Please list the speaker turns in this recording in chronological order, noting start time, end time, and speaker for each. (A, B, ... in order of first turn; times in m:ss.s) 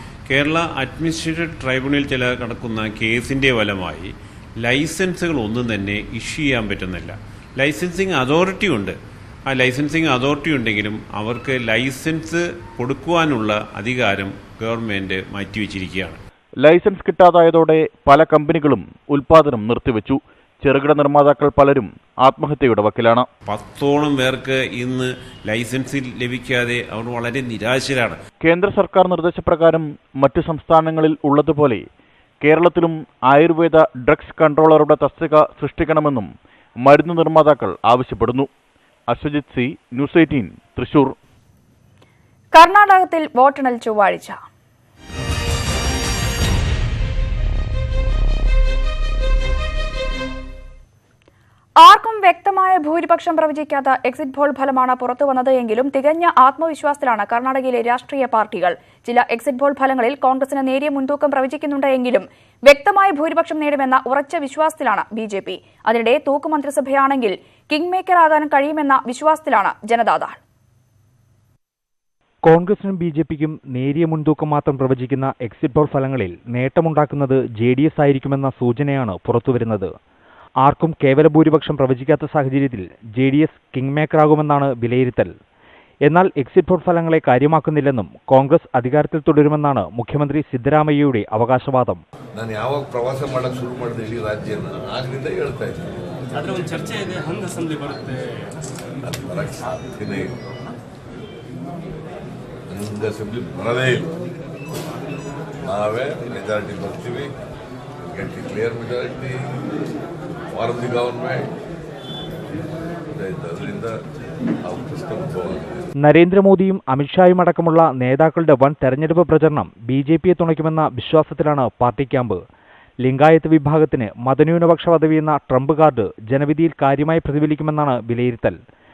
0:00.3-0:09.0 A
0:09.5-0:16.2 A
0:16.6-0:23.3 B
0:23.5-0:28.2 A
0:28.4-0:31.8 B
0:32.4-0:36.3 B
0:36.8-0:38.5 B
0:39.1-0:41.2 B
0:42.5-0:44.4 C
0:51.8-1:10.4 C
1:12.4-1:19.9 D
1:20.6-1:25.3 D
1:26.1-1:32.0 D
1:32.4-1:36.0 E
1:39.0-1:40.3 E
1:42.7-1:44.1 E
1:45.6-1:47.3 E
1:48.1-1:49.4 E
1:50.5-1:51.5 E
1:53.2-1:53.9 E
1:54.6-1:55.9 E
1:56.0-2:02.4 D
2:03.0-2:08.6 D